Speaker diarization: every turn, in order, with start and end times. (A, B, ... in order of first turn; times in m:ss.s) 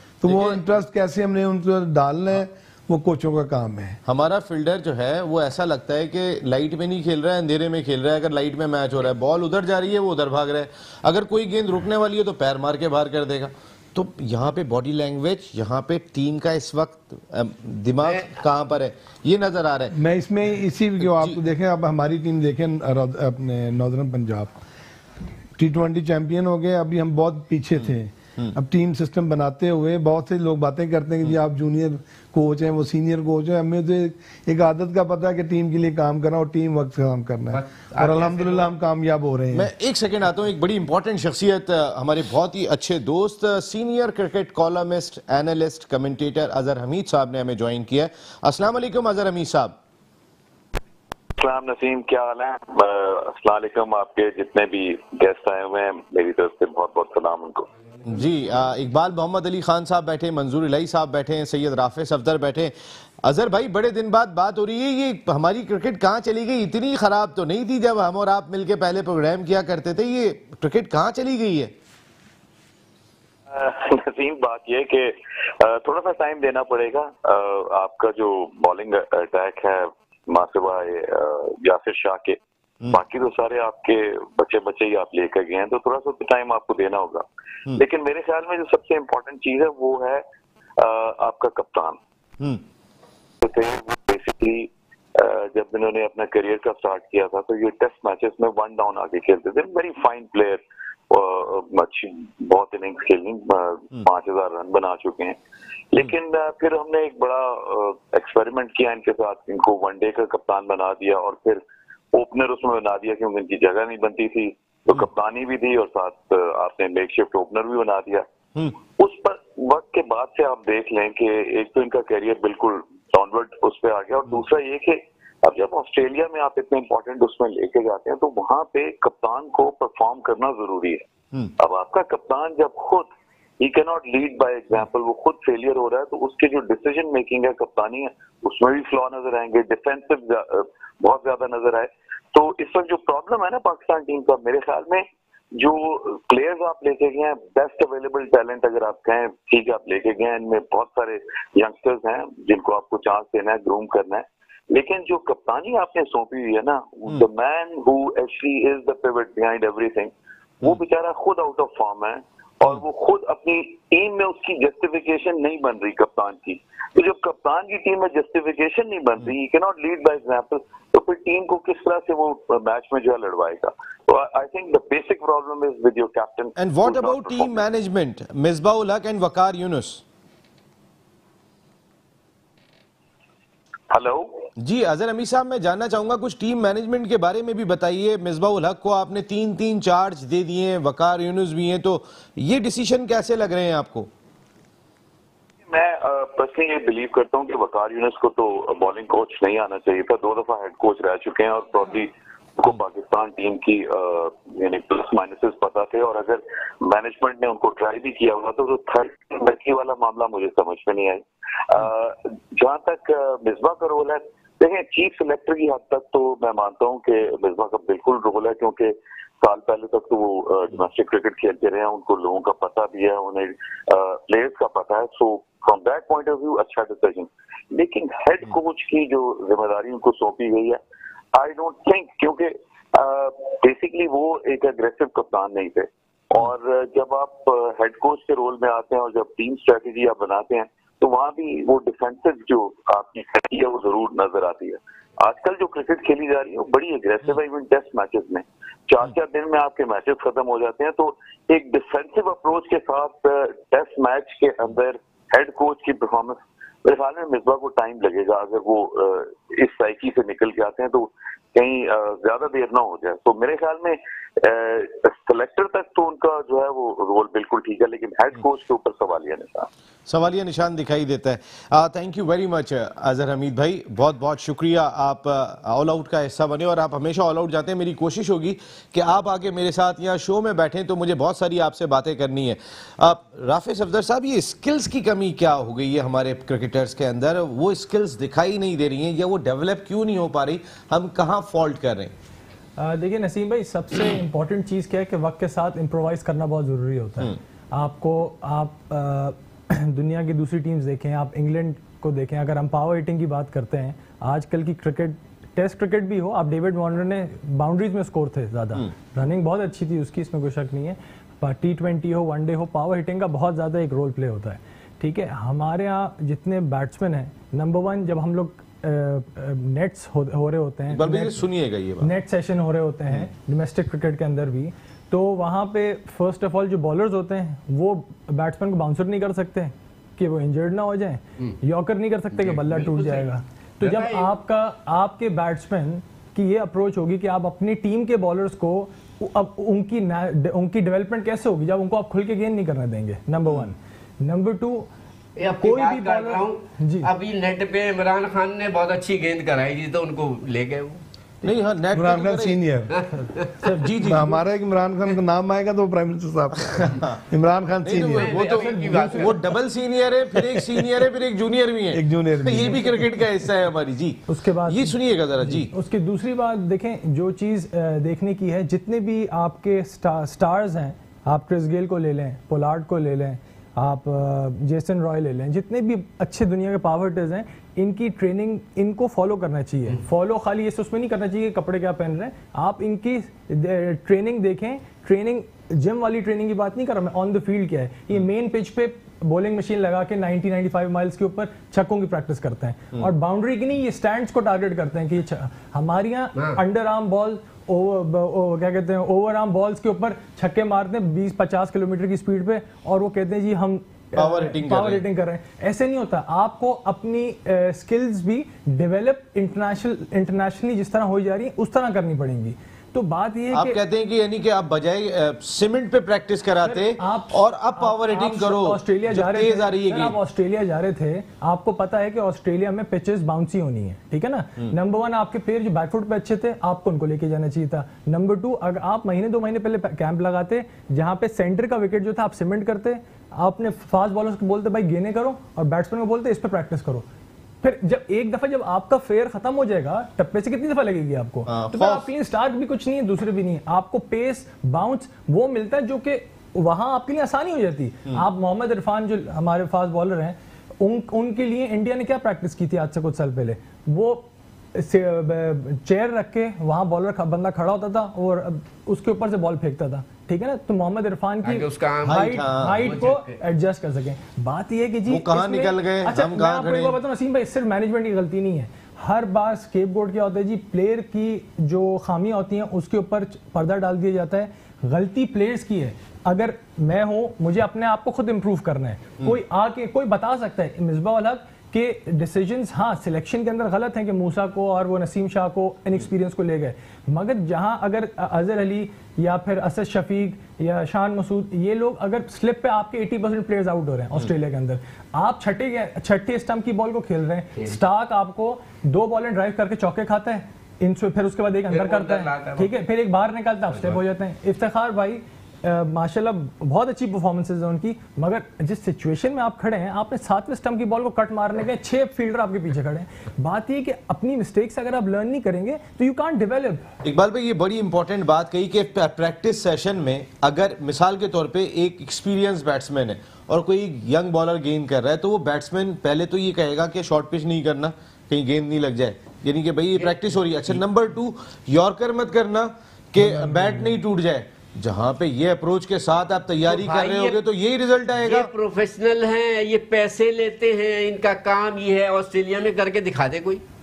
0:00.2-0:04.0 A
0:00.3-0:00.6 B
0:04.0-0:20.0 B
0:18.0-0:18.3 C
0:19.9-0:24.6 A
0:21.1-0:21.4 B
0:25.6-0:39.7 A
0:37.5-0:38.7 C
0:39.5-0:49.8 B
0:51.4-0:57.7 D
0:58.1-1:11.7 B
1:13.5-1:30.2 D
1:30.8-1:32.0 D
1:33.4-1:45.4 D
1:45.9-1:58.2 D
1:59.0-2:11.0 D
2:11.6-2:13.1 D
2:13.6-2:25.0 D
2:25.6-2:40.1 D
2:40.6-2:57.6 D
2:56.6-3:00.0 B
3:03.9-3:04.4 D
3:04.6-3:14.1 B
3:15.7-3:50.8 D
3:51.3-4:29.7 D
4:30.1-4:52.1 B
4:52.8-5:21.4 E
5:20.9-5:22.1 B
5:22.0-5:44.9 E
5:32.4-5:33.2 C
5:33.8-5:34.3 C
5:45.4-5:51.0 C
5:45.6-5:47.1 E
5:51.4-5:52.6 B
5:51.9-5:53.0 A
5:52.9-5:53.7 C
5:53.6-5:54.4 B
5:54.0-5:58.4 A
5:56.6-5:57.2 B
5:57.8-6:05.7 B
5:58.2-5:59.6 C
5:58.5-5:59.4 E
6:01.9-6:03.1 A
6:04.3-6:53.8 E
6:44.1-6:45.0 B
6:53.5-7:00.2 B
6:56.6-7:17.0 E
7:17.6-8:36.8 E
7:21.5-7:22.0 B
7:41.4-7:43.4 C
7:42.0-7:42.8 B
7:45.1-7:47.0 B
8:21.7-8:22.7 C
8:37.0-8:58.5 B
8:56.6-8:57.4 C
8:58.2-9:03.6 C